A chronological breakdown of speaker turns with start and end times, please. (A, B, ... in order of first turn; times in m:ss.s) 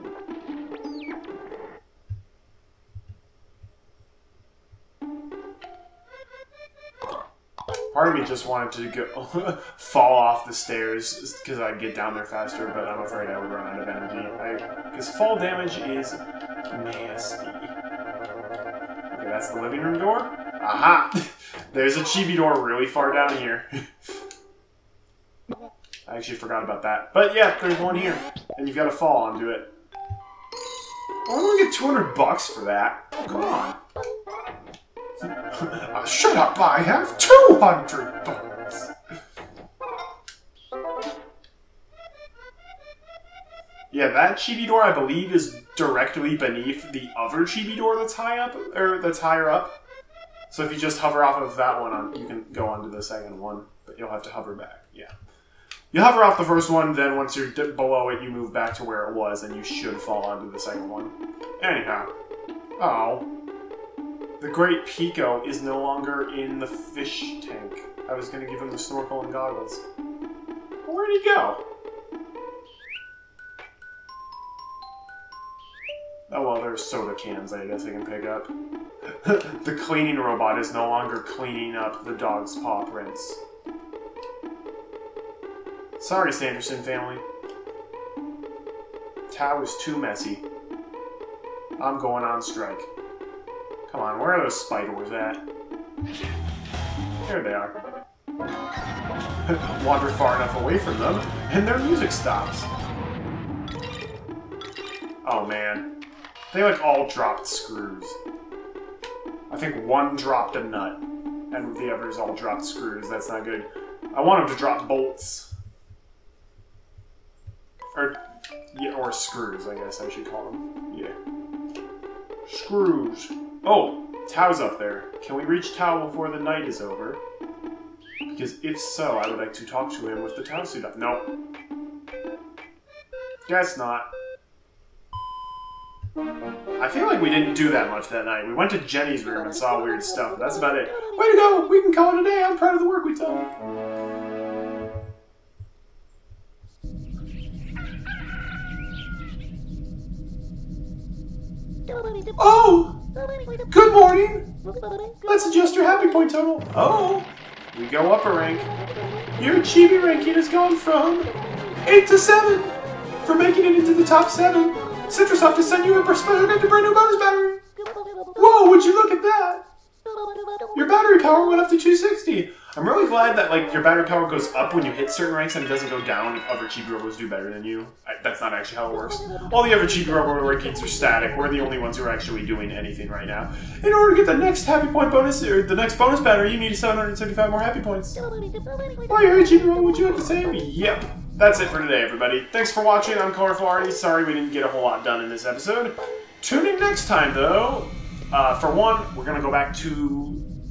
0:07.9-0:17.7 A
0:19.1-0:23.7 A
0:26.0-0:29.7 A
0:31.2-0:33.8 A
0:35.5-0:38.9 A
0:43.9-0:49.7 A
0:50.5-0:55.1 A
0:55.9-1:02.1 A
1:02.8-1:03.3 A
1:04.4-1:09.8 A
1:10.8-1:11.6 A
1:16.3-1:18.5 A
1:19.1-1:23.4 A
1:26.0-1:27.2 A
1:29.3-1:30.4 A
1:31.8-1:32.9 A
1:33.9-1:35.4 A
1:37.2-1:37.8 A
1:39.4-1:42.7 A
1:45.2-1:45.9 A
1:46.5-1:48.2 A
1:49.5-1:51.0 A
1:51.5-1:55.5 A
1:58.7-2:01.1 A
2:02.4-2:07.2 A
2:08.3-2:11.3 A
2:13.4-2:14.1 A
2:16.8-2:23.5 A
2:32.4-2:33.0 A
2:33.7-2:34.5 A
2:35.2-2:38.7 A
2:39.4-2:41.3 A
2:41.8-2:47.6 A
2:48.4-2:49.6 A
2:50.7-3:08.2 A
3:09.1-3:20.4 A